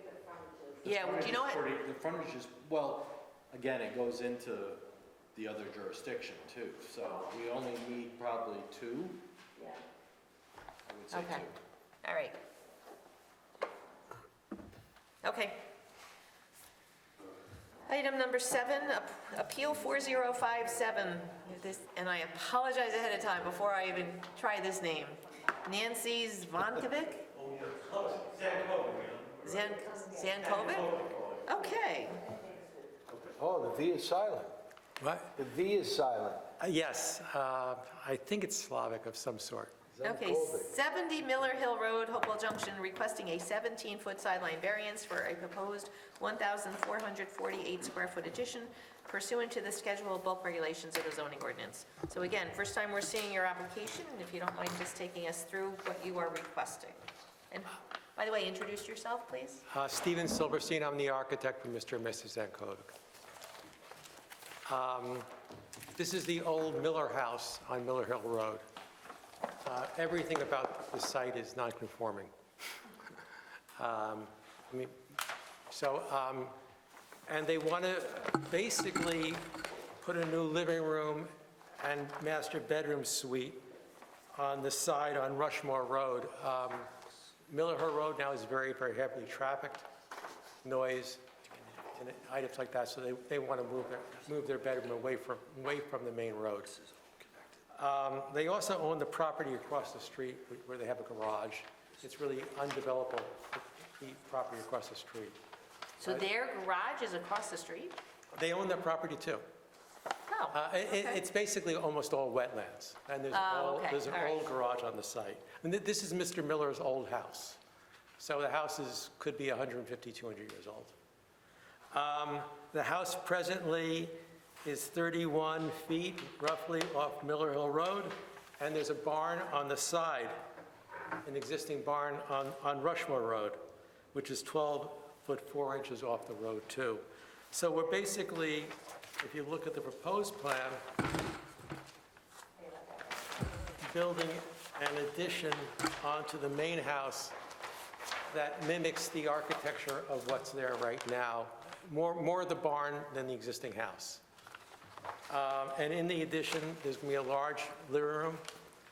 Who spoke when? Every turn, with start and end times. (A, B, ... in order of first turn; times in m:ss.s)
0:00.8-0:09.2 A
0:00.8-0:01.6 B
0:10.9-0:11.6 A
0:11.1-0:11.4 B
0:12.0-0:12.4 B
0:15.2-0:15.7 B
0:17.9-0:27.3 B
0:29.4-0:32.2 B
0:33.3-0:34.6 C
0:35.0-0:35.3 D
0:35.4-0:36.5 C
0:36.6-0:39.7 D
0:39.9-0:40.7 C
0:40.0-0:57.0 B
0:57.5-0:59.6 B
0:59.7-1:02.9 D
1:04.7-1:05.3 D
1:05.9-1:08.6 D
1:09.6-1:12.3 D
1:13.8-1:15.0 D
1:15.7-1:16.6 D
1:17.3-1:23.6 D
1:24.3-1:26.9 D
1:27.5-1:29.9 D
1:30.6-1:31.3 D
1:31.9-1:36.7 D
1:37.7-1:45.4 D
1:46.0-1:48.0 B
1:48.3-1:49.4 D
1:50.3-1:51.2 B
1:50.5-1:57.6 D
1:53.3-1:54.5 B
1:58.2-2:01.0 D
2:01.9-2:10.4 D
2:11.2-2:20.8 D
2:23.7-2:27.4 D
2:28.3-2:34.2 D
2:35.3-2:38.5 D